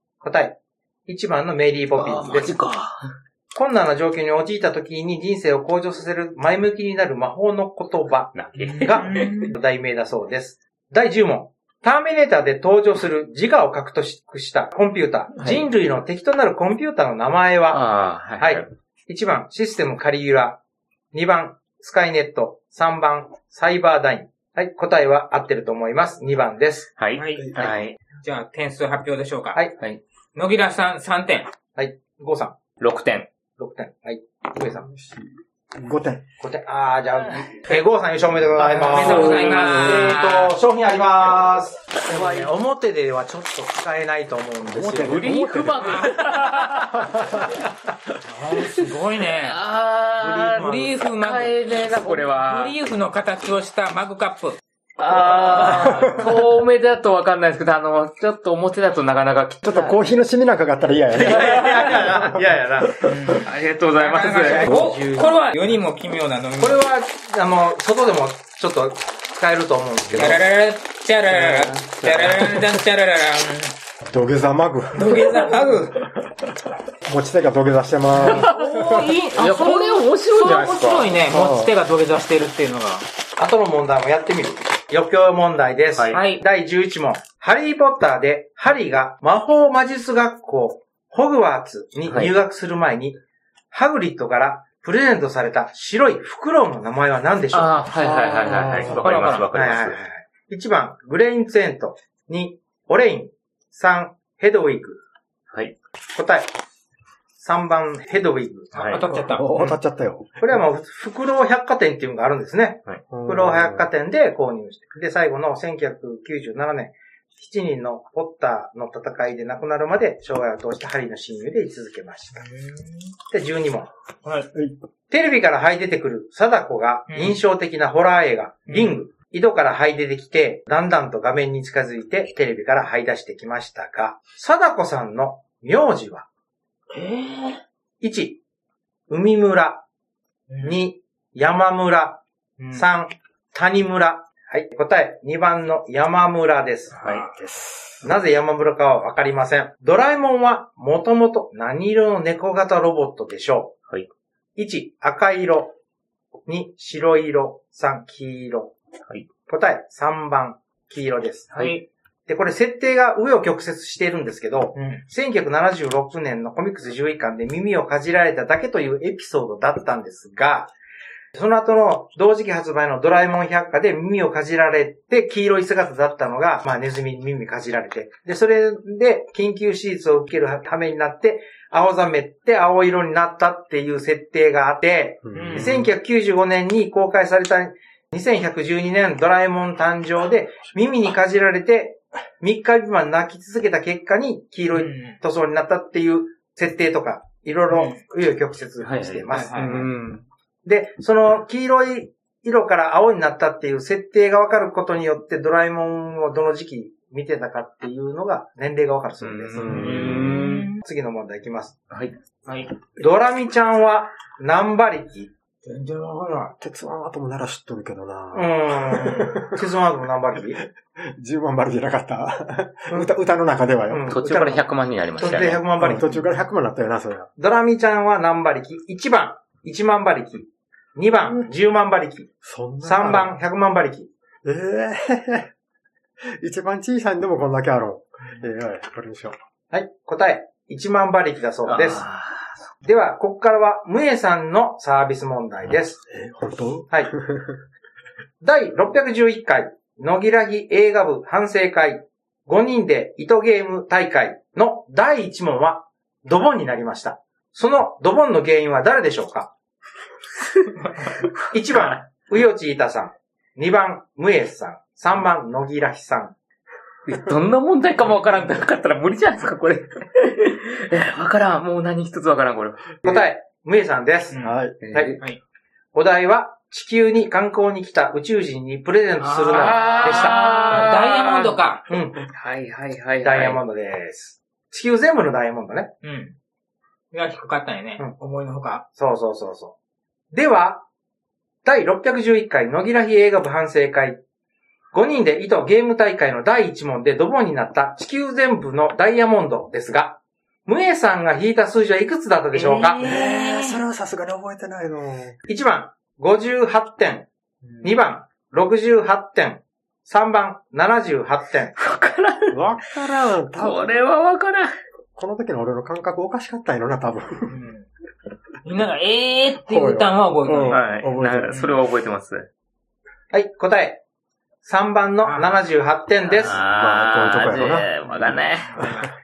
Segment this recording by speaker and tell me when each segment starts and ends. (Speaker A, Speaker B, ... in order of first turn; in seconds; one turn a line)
Speaker A: 0.2-2.5
Speaker B: 1.9-3.1
Speaker A: 3.5-17.8
Speaker B: 8.3-9.4
Speaker C: 8.6-9.6
Speaker B: 15.4-15.7
Speaker B: 17.7-18.7
Speaker A: 18.4-20.6
Speaker A: 21.1-26.9
Speaker B: 27.0-28.0
Speaker C: 27.2-27.6
Speaker D: 27.4-27.7
Speaker C: 28.2-29.6
Speaker C: 30.4-31.5
Speaker A: 31.8-32.6
Speaker B: 32.8-33.3
Speaker A: 33.6-34.9
Speaker D: 34.6-36.2
Speaker A: 36.4-45.3
Speaker C: 38.6-40.5
Speaker B: 38.8-40.0
Speaker B: 42.1-42.5
Speaker D: 44.7-46.0
Speaker B: 44.8-47.2
Speaker C: 45.8-46.9
Speaker D: 47.0-47.5
Speaker C: 48.2-49.6
Speaker B: 49.4-52.8
Speaker A: 50.2-51.0
Speaker C: 50.4-54.6
Speaker B: 55.0-60.0
Speaker C: 55.5-56.2
Speaker D: 55.7-56.2
Speaker D: 59.6-62.4
Speaker A: 61.2-63.1
Speaker B: 61.3-62.0
Speaker D: 63.0-63.3
Speaker C: 63.0-66.8
Speaker B: 63.3-64.9
Speaker A: 64.4-65.4
Speaker A: 66.6-70.4
Speaker C: 70.2-73.7
Speaker B: 71.3-72.6
Speaker D: 74.0-75.7
Speaker C: 74.9-76.1
Speaker D: 77.0-79.0
Speaker B: 78.2-81.1
Speaker C: 78.2-83.1
Speaker D: 81.3-81.7
Speaker A: 83.4-93.2
Speaker B: 86.0-86.2
Speaker C: 86.1-86.4
Speaker A: 93.7-97.8
Speaker B: 97.5-100.0
Speaker C: 98.0-99.5
Speaker D: 98.4-99.1
Speaker A: 99.5-105.0
Speaker B: 105.5-105.8
Speaker A: 106.2-106.5
Speaker A: 107.4-109.0
Speaker B: 108.7-109.0
Speaker C: 108.7-109.8
Speaker D: 109.1-110.3
Speaker A: 110.4-122.5
Speaker D: 113.1-113.9
Speaker C: 122.4-123.0
Speaker A: 123.3-123.9
Speaker A: 125.1-136.3
Speaker C: 127.1-127.4
Speaker C: 128.7-129.0
Speaker C: 136.9-137.6
Speaker A: 138.0-138.4
Speaker A: 139.1-139.8
Speaker C: 140.5-140.8
Speaker A: 140.6-142.2
Speaker C: 142.6-142.8
Speaker A: 142.7-147.0
Speaker C: 147.0-147.3
Speaker B: 147.0-147.3
Speaker D: 147.3-147.8
Speaker A: 148.0-153.8
Speaker A: 154.6-155.7
Speaker A: 156.5-158.7
Speaker A: 159.5-161.5
Speaker C: 161.5-161.8
Speaker A: 162.3-170.7
Speaker C: 164.8-165.0
Speaker A: 171.3-200.0
Speaker D: 185.2-185.9
Speaker C: 185.3-185.9
Speaker C: 194.7-195.2
Speaker C: 197.7-198.0
Speaker B: 198.8-200.2
Speaker C: 199.3-199.8
Speaker A: 200.7-210.2
Speaker B: 209.2-210.7
Speaker D: 209.6-210.4
Speaker C: 209.6-210.8
Speaker A: 210.8-211.8
Speaker B: 211.9-212.2
Speaker A: 213.0-215.3
Speaker C: 215.6-216.5
Speaker D: 216.6-219.6
Speaker A: 218.3-220.6
Speaker D: 221.0-224.1
Speaker A: 223.9-226.3
Speaker B: 224.1-225.6
Speaker D: 225.8-227.3
Speaker A: 227.4-232.3
Speaker D: 232.4-233.4
Speaker A: 232.8-234.1
Speaker D: 234.4-235.5
Speaker D: 236.3-239.3
Speaker A: 239.7-242.0
Speaker B: 241.7-242.5
Speaker A: 242.8-246.0
Speaker D: 246.1-247.6
Speaker A: 248.4-259.5
Speaker A: 261.5-266.4
Speaker B: 267.1-273.0
Speaker A: 273.0-274.4
Speaker C: 274.3-274.6
Speaker D: 274.4-274.8
Speaker B: 274.8-275.2
Speaker A: 274.9-275.2
Speaker A: 275.9-280.4
Speaker C: 279.2-281.9
Speaker B: 279.5-281.6
Speaker A: 281.9-282.2
Speaker B: 282.2-283.6
Speaker A: 283.2-285.9
Speaker C: 286.0-286.4
Speaker C: 287.1-288.8
Speaker A: 288.9-289.8
Speaker A: 290.3-290.9
Speaker A: 291.6-294.2
Speaker A: 294.9-303.0
Speaker C: 302.5-303.8
Speaker D: 303.0-305.4
Speaker A: 305.5-307.3
Speaker C: 307.6-308.0
Speaker A: 307.8-311.8
Speaker B: 311.8-312.6
Speaker D: 312.5-314.0
Speaker B: 313.5-314.7
Speaker D: 315.2-317.5
Speaker C: 317.5-317.9
Speaker C: 318.6-320.8
Speaker D: 319.6-321.7
Speaker B: 320.7-322.5
Speaker A: 323.3-324.0
Speaker A: 324.6-326.6
Speaker C: 325.2-325.6
Speaker B: 326.4-328.8
Speaker D: 326.5-327.9
Speaker C: 328.7-329.1
Speaker D: 328.8-329.1